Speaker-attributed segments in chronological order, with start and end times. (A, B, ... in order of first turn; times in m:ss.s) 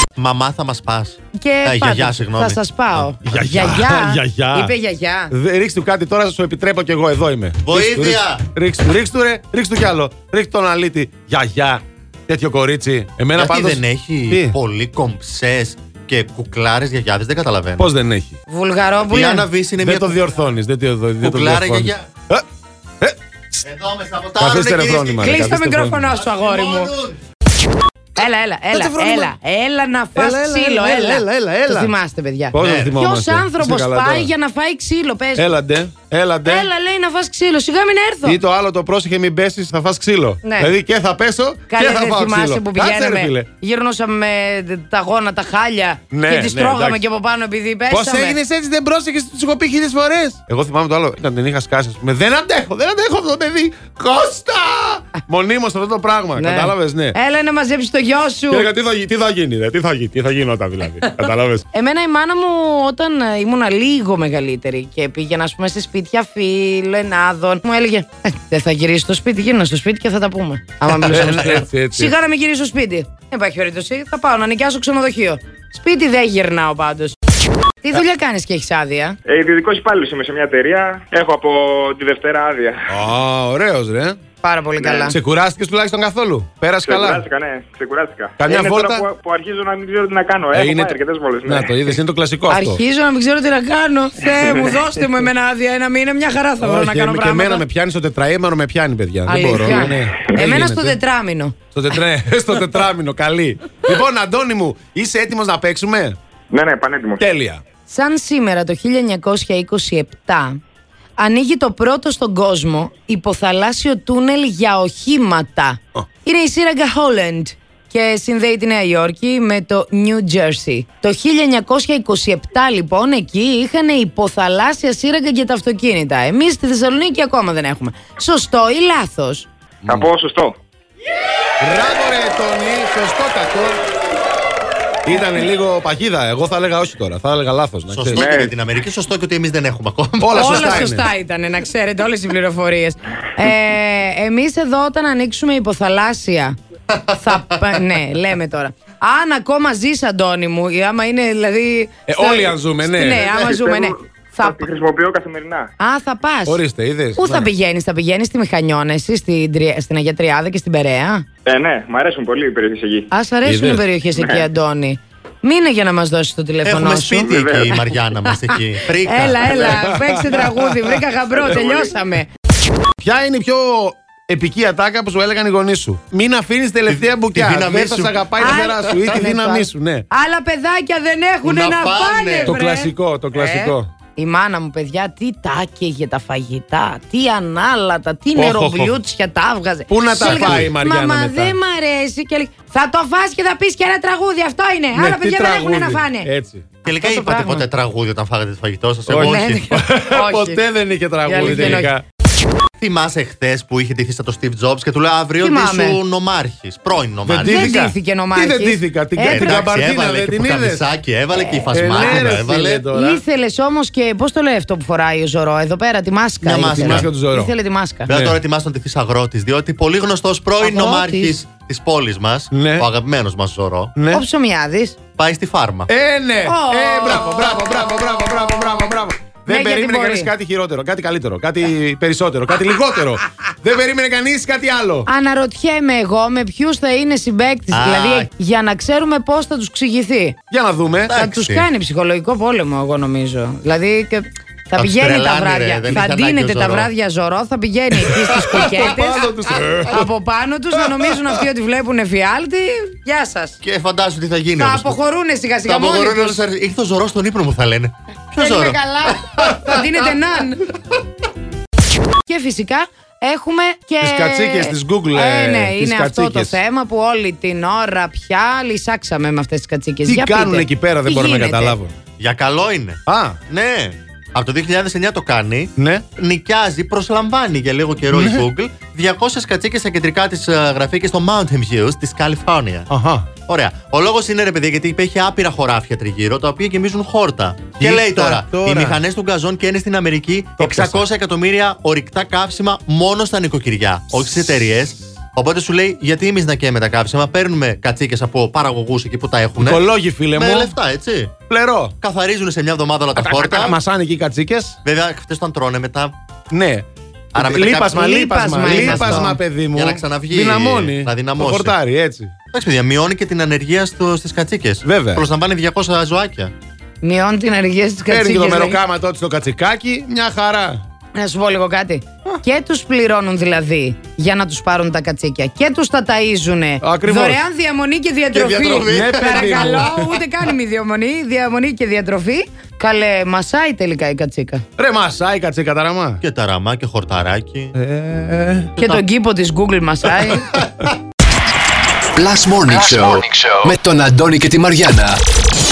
0:00.2-0:03.1 A
0:01.4-0:05.3 B
0:03.2-0:04.7 C
0:05.3-0:14.6 C
0:07.6-0:08.4 A
0:13.4-0:17.9 A
0:17.8-0:18.4 C
0:18.5-0:19.5 B
0:19.1-0:20.3 A
0:19.8-0:22.4 C
0:21.2-0:22.1 A
0:23.0-0:23.6 C
0:23.6-0:25.4 A
0:24.4-0:26.1 C
0:25.2-0:26.9 B
0:26.2-0:27.2 A
0:28.2-0:35.5 B
0:28.7-0:29.3 C
0:30.2-0:31.9 C
0:32.5-0:34.3 C
0:32.6-0:33.0 A
0:35.4-0:36.7 C
0:36.4-0:38.4 B
0:38.2-0:43.5 C
0:40.4-0:40.7 B
0:41.7-0:48.4 B
0:46.1-0:47.0 C
0:47.9-0:57.1 C
0:56.4-0:58.7 B
0:58.5-1:01.6 C
1:01.7-1:17.2 B
1:11.0-1:12.1 C
1:17.8-1:19.2 B
1:19.3-1:22.8 D
1:22.9-1:24.2 C
1:24.4-1:25.1 B
1:24.8-1:25.1 D
1:25.1-1:27.2 C
1:26.8-1:32.0 D
1:28.4-1:29.0 C
1:30.5-1:32.8 C
1:32.5-1:37.6 B
1:36.6-1:41.0 C
1:39.2-1:41.6 B
1:41.7-1:46.2 C
1:46.5-1:47.2 D
1:47.2-1:47.6 C
1:47.9-1:50.6 B
1:51.2-2:09.5 B
2:09.8-2:10.1 C
2:09.9-2:10.6 D
2:11.6-2:13.8 C
2:15.1-2:18.3 C
2:17.9-2:20.9 A
2:18.1-2:18.5 D
2:20.2-2:21.1 C
2:20.3-2:26.6 B
2:26.9-2:27.8 A
2:27.2-2:34.7 B
2:32.1-2:33.2 C
2:33.3-2:35.7 D
2:35.8-2:36.6 B
2:36.5-2:37.5 C
2:37.2-2:41.2 B
2:41.5-2:43.1 D
2:43.1-2:47.4 B
2:43.4-2:43.8 C
2:44.1-2:44.4 D
2:46.6-2:49.8 A
2:47.3-2:47.8 D
2:48.3-2:52.3 B
2:49.7-2:50.5 C
2:53.0-3:00.1 C
2:56.9-2:59.2 A
2:58.4-3:16.3 B
3:01.4-3:02.6 A
3:02.4-3:03.9 C
3:08.4-3:09.0 C
3:09.9-3:11.6 C
3:10.2-3:10.7 A
3:15.0-3:16.7 C
3:16.8-3:17.7 B
3:16.8-3:19.6 A
3:19.1-3:22.0 C
3:19.2-3:20.6 B
3:21.2-3:21.9 B
3:21.4-3:21.8 A
3:22.8-3:27.7 A
3:25.4-3:26.0 B
3:27.3-3:30.8 C
3:27.4-3:29.6 B
3:29.2-3:32.8 A
3:31.7-3:33.2 C
3:31.8-3:32.3 B
3:32.9-3:38.1 B
3:36.4-3:37.1 A
3:36.5-3:37.5 C
3:38.1-3:43.9 A
3:38.1-3:38.4 C
3:40.6-3:41.4 B
3:42.5-3:42.9 C
3:44.0-3:44.2 C
3:44.1-3:45.0 B
3:45.2-3:45.9 A
3:45.9-3:55.1 C
3:46.4-3:47.8 B
3:49.5-3:50.3 B
3:55.1-4:00.4 B
3:57.7-3:58.3 A
4:00.5-4:01.1 C
4:01.1-4:01.7 A
4:01.1-4:09.3 B
4:04.8-4:06.9 A
4:08.2-4:10.1 C
4:09.8-4:13.6 B
4:10.9-4:11.4 C
4:13.6-4:15.0 A
4:14.6-4:16.4 B
4:15.6-4:19.9 A
4:18.4-4:20.6 B
4:22.2-4:31.8 B
4:24.0-4:26.6 C
4:30.0-4:31.9 C
4:32.2-4:42.9 A
4:33.1-4:33.4 C
4:35.8-4:36.1 C
4:38.1-4:38.4 C
4:42.9-4:43.3 C
4:43.5-5:01.3 A
4:47.8-4:49.0 C
4:50.6-4:51.0 C
4:59.6-5:00.7 C
5:01.5-5:01.9 C
5:02.0-5:03.8 A
5:03.2-5:04.8 C
5:04.8-5:06.2 A
5:06.5-5:12.3 C
5:07.3-5:07.9 A
5:07.8-5:09.4 B
5:08.6-5:11.8 A
5:12.5-5:16.5 A
5:14.8-5:15.2 C
5:17.0-5:18.8 B
5:18.1-5:20.8 C
5:21.2-5:34.6 B
5:26.8-5:27.4 C
5:28.3-5:29.6 A
5:28.9-5:30.2 C
5:34.8-5:36.2 C
5:36.2-5:37.8 A
5:37.8-5:38.7 C
5:38.8-5:40.5 B
5:38.8-5:39.0 A
5:40.2-5:40.9 C
5:42.2-5:45.2 E